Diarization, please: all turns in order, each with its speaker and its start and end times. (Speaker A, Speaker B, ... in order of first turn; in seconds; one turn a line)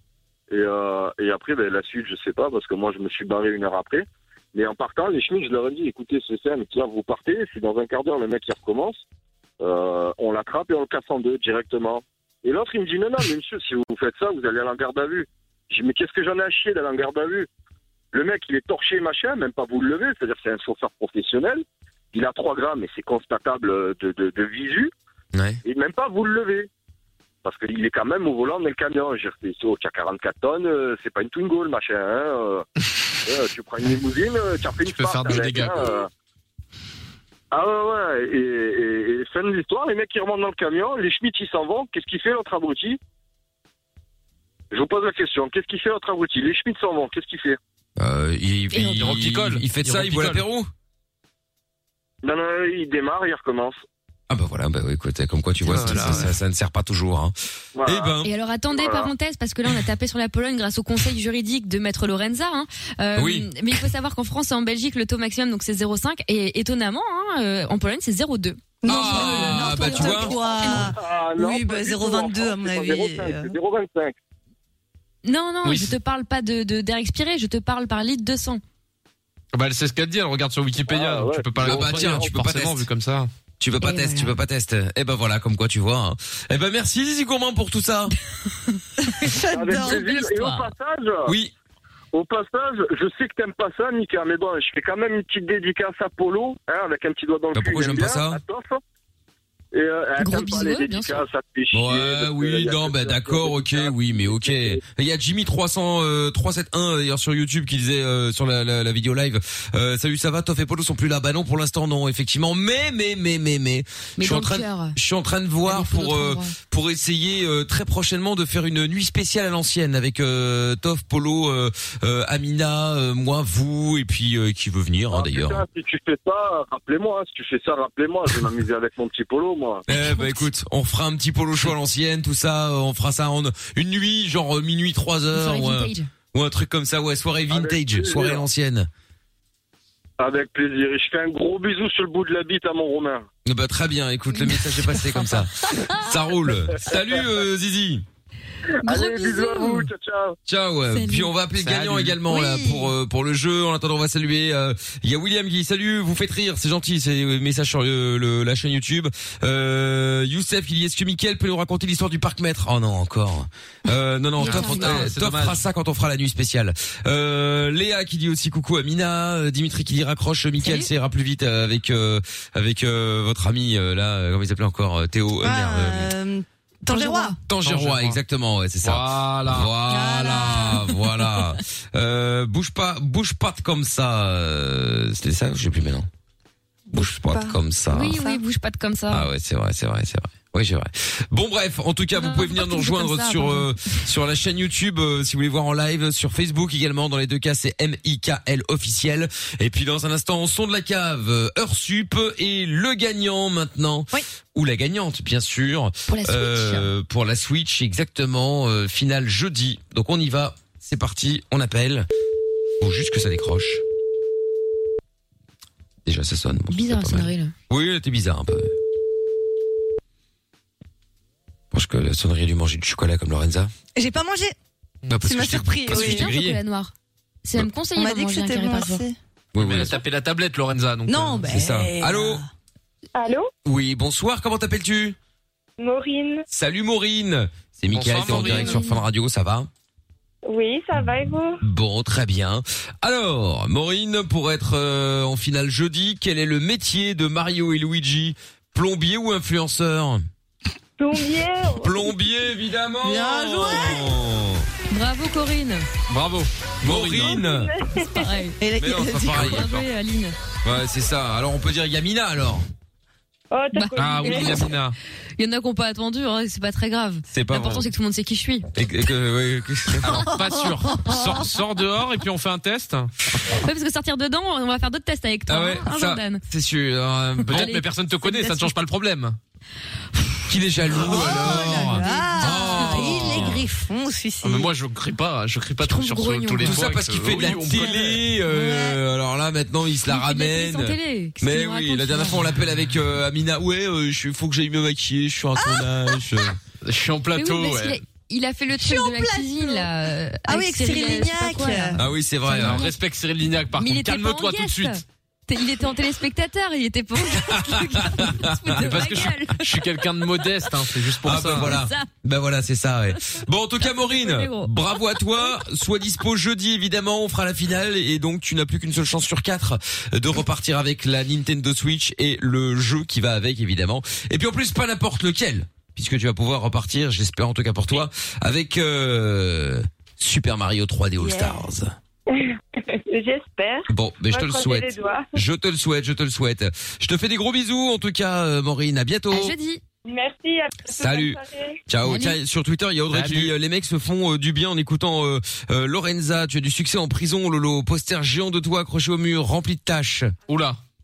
Speaker A: 0.5-9.0
Speaker A: 9.6-17.5
Speaker A: 18.1-24.9
Speaker B: 25.3-25.6
Speaker A: 25.6-26.7
Speaker A: 27.4-32.6
Speaker A: 33.2-36.1
Speaker C: 34.9-36.0
Speaker A: 37.5-43.0
Speaker A: 44.7-47.6
Speaker B: 48.0-50.7
Speaker C: 48.7-50.4
Speaker A: 52.2-53.8
Speaker B: 54.3-58.3
Speaker C: 55.6-56.3
Speaker A: 57.8-58.2
Speaker D: 58.2-70.9
Speaker A: 58.7-59.1
Speaker B: 63.1-63.5
Speaker E: 68.8-73.5
Speaker B: 68.8-70.3
Speaker A: 70.2-74.2
Speaker D: 75.2-78.6
Speaker C: 75.6-75.9
Speaker C: 79.5-83.3
Speaker A: 80.8-82.1
Speaker B: 81.6-82.9
Speaker B: 83.6-88.1
Speaker D: 83.8-84.3
Speaker E: 89.0-90.1
Speaker D: 89.3-90.7
Speaker A: 89.5-91.3
Speaker B: 91.2-91.5
Speaker A: 92.1-98.8
Speaker B: 97.5-98.4
Speaker A: 99.7-104.8
Speaker D: 100.2-101.2
Speaker B: 101.7-125.6
Speaker D: 114.2-115.0
Speaker D: 115.6-116.5
Speaker A: 125.1-129.8
Speaker B: 129.9-138.9
Speaker D: 129.9-130.4
Speaker D: 135.3-136.1
Speaker A: 137.5-138.4
Speaker A: 140.2-143.3
Speaker B: 143.4-148.0
Speaker D: 148.8-149.9
Speaker A: 148.8-150.4
Speaker B: 150.5-176.1
Speaker E: 151.0-151.3
Speaker C: 151.6-152.2
Speaker E: 152.3-152.9
Speaker D: 164.4-165.0
Speaker E: 164.4-165.1
Speaker C: 164.5-165.6
Speaker E: 175.4-177.4
Speaker D: 176.9-177.4
Speaker B: 177.4-186.1
Speaker C: 177.6-178.2
Speaker C: 178.8-179.7
Speaker E: 179.8-181.1
Speaker E: 186.9-188.4
Speaker B: 186.9-188.2
Speaker D: 187.9-189.3
Speaker B: 189.1-212.1
Speaker D: 192.1-194.0
Speaker D: 206.1-206.9
Speaker B: 212.8-213.8
Speaker B: 216.0-218.7
Speaker D: 216.7-217.5
Speaker B: 221.7-223.7
Speaker E: 223.9-224.5
Speaker B: 225.1-226.6
Speaker E: 225.1-226.3
Speaker D: 225.9-226.9
Speaker D: 227.4-229.0
Speaker E: 227.9-229.2
Speaker B: 229.5-230.0
Speaker C: 229.6-231.5
Speaker E: 231.1-232.5
Speaker B: 231.4-232.4
Speaker F: 233.2-233.5
Speaker B: 233.6-235.2
Speaker F: 235.8-236.4
Speaker B: 236.5-239.7
Speaker C: 237.9-238.8
Speaker D: 238.3-239.0
Speaker F: 240.4-241.6
Speaker B: 241.6-250.2
Speaker F: 251.0-252.1
Speaker B: 251.8-254.7
Speaker E: 253.0-254.1
Speaker D: 254.9-255.8
Speaker C: 256.1-257.4
Speaker B: 256.8-257.7
Speaker F: 257.5-258.3
Speaker D: 258.1-258.6
Speaker E: 258.6-259.7
Speaker B: 258.8-259.8
Speaker D: 259.2-260.3
Speaker B: 260.6-262.6
Speaker F: 263.5-264.7
Speaker D: 263.7-264.7
Speaker C: 263.9-264.9
Speaker D: 265.4-268.7
Speaker B: 267.3-267.9
Speaker B: 268.7-270.3
Speaker C: 270.0-273.1
Speaker E: 270.9-271.4
Speaker D: 273.6-276.4
Speaker B: 275.5-277.7
Speaker C: 277.4-279.4
Speaker D: 277.5-277.8
Speaker E: 278.2-278.7
Speaker B: 280.5-283.6
Speaker E: 280.9-284.7
Speaker C: 280.9-283.6
Speaker D: 281.9-283.2
Speaker C: 284.4-288.4
Speaker D: 285.8-286.8
Speaker B: 286.6-296.6
Speaker D: 287.5-287.9
Speaker E: 288.4-289.0
Speaker D: 290.1-292.4
Speaker E: 295.6-295.9
Speaker C: 296.8-298.0
Speaker D: 297.3-302.9
Speaker E: 298.8-299.9
Speaker E: 300.4-302.0
Speaker B: 302.0-302.9
Speaker C: 302.6-305.0
Speaker D: 303.7-310.7
Speaker B: 307.3-309.3
Speaker C: 308.7-311.9
Speaker B: 311.2-331.9
Speaker D: 311.5-312.1
Speaker D: 313.9-314.7
Speaker F: 332.3-335.3
Speaker B: 333.9-339.5
Speaker D: 339.3-339.8
Speaker F: 340.0-341.8
Speaker B: 340.9-350.3
Speaker D: 342.0-342.4
Speaker C: 343.1-343.5
Speaker C: 350.5-350.8